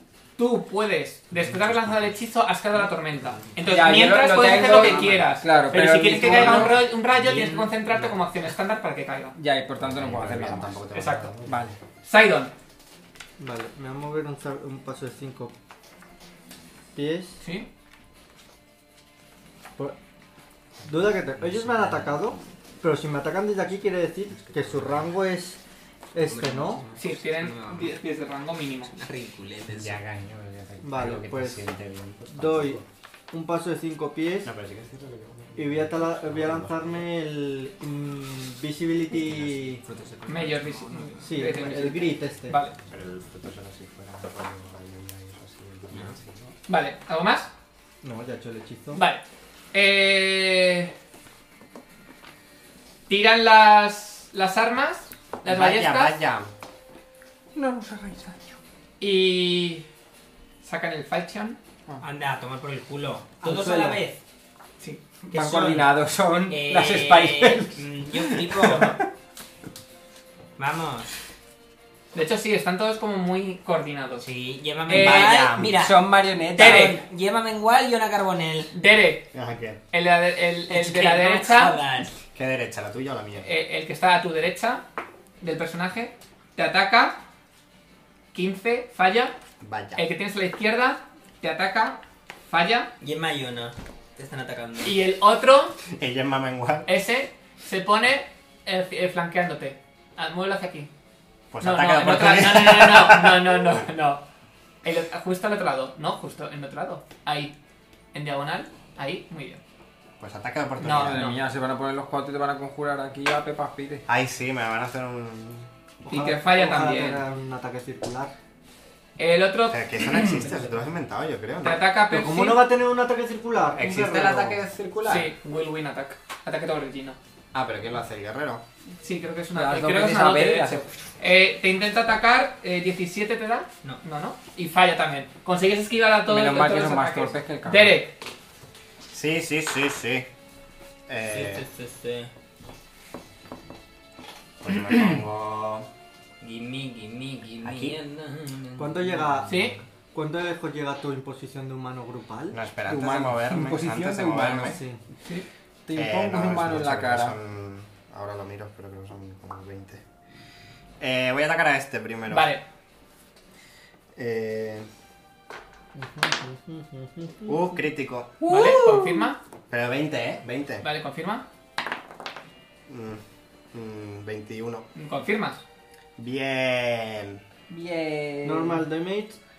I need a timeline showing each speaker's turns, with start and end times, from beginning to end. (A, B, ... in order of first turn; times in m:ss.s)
0:00.4-0:09.4 A
0:01.4-0:02.2 B
0:03.1-0:05.3 C
0:03.7-0:06.9 D
0:09.4-0:10.8 D
0:09.8-0:11.7 B
0:10.9-0:11.3 A
0:11.5-0:11.8 D
0:12.0-0:12.5 A
0:13.4-0:15.5 E
0:17.0-0:17.4 E
0:17.4-0:17.7 A
0:20.8-0:25.6 E
0:21.4-0:22.3 C
0:24.4-0:25.1 B
0:26.1-0:26.8 E
0:26.2-0:28.0 C
0:27.0-0:29.0 A
0:28.8-0:30.0 C
0:29.7-0:32.9 B
0:30.8-0:31.6 E
0:32.3-0:34.5 E
0:34.4-0:37.1 B
0:35.6-0:39.8 E
0:39.1-0:41.6 C
0:40.3-0:42.8 A
0:41.2-0:42.6 E
0:42.9-0:46.6 B
0:45.9-0:46.2 C
0:46.7-0:47.5 A
0:48.0-0:49.0 E
0:48.9-0:50.9 A
0:53.1-0:56.2 A
0:55.4-0:56.5 B
0:57.5-0:58.5 D
0:59.0-0:59.8 A
1:00.6-1:01.6 A
1:02.0-1:04.2 C
1:03.4-1:04.0 E
1:05.3-1:09.0 C
1:05.3-1:07.8 D
1:08.6-1:09.0 A
1:10.6-1:11.1 C
1:12.1-1:14.3 A
1:14.2-1:18.7 C
1:14.9-1:15.5 A
1:14.9-1:15.8 B
1:15.8-1:16.9 D
1:16.6-1:17.0 A
1:18.7-1:19.3 A
1:19.3-1:19.8 B
1:19.9-1:21.8 A
1:20.7-1:22.2 C
1:22.4-1:23.5 B
1:23.4-1:24.8 A
1:25.4-1:27.2 A
1:28.3-1:29.4 A
1:29.6-1:30.0 B
1:30.0-1:32.9 A
1:33.0-1:35.0 C
1:34.8-1:35.8 A
1:35.9-1:36.9 B
1:36.9-1:40.9 A
1:41.5-1:43.6 B
1:41.6-1:44.2 A
1:44.8-1:47.6 A
1:48.1-1:49.6 A
1:50.2-1:51.3 B
1:50.8-1:51.4 A
1:50.8-1:54.0 D
1:54.1-1:55.7 B
1:56.1-1:57.2 A
1:56.1-1:58.3 E
1:59.2-2:00.7 A
1:59.7-2:01.8 B
2:01.6-2:02.7 A
2:02.1-2:04.6 E
2:03.7-2:05.3 B
2:05.0-2:07.2 A
2:07.5-2:08.6 B
2:09.0-2:18.2 A
2:09.5-2:10.9 D
2:16.3-2:18.0 D
2:19.1-2:20.3 B
2:21.1-2:21.6 B
2:21.3-2:22.3 C
2:24.6-2:25.9 B
2:26.4-2:29.8 C
2:27.6-2:28.0 B
2:28.8-2:29.6 E
2:29.5-2:29.8 A
2:30.1-2:32.6 E
2:32.5-2:34.8 B
2:32.9-2:34.8 D
2:34.7-2:35.0 E
2:35.9-2:37.4 D
2:36.0-2:40.0 B
2:41.0-2:42.6 B
2:42.3-2:42.6 A
2:44.2-2:44.9 B
2:46.0-2:47.7 E
2:47.5-2:48.4 B
2:48.4-2:49.4 A
2:48.5-2:49.2 D
2:49.7-2:50.9 B
2:50.8-2:51.4 A
2:52.9-2:53.2 B
2:53.7-2:54.9 B
2:55.0-2:55.6 A
2:56.2-2:57.4 B
2:57.7-2:58.9 D
2:58.4-2:59.4 E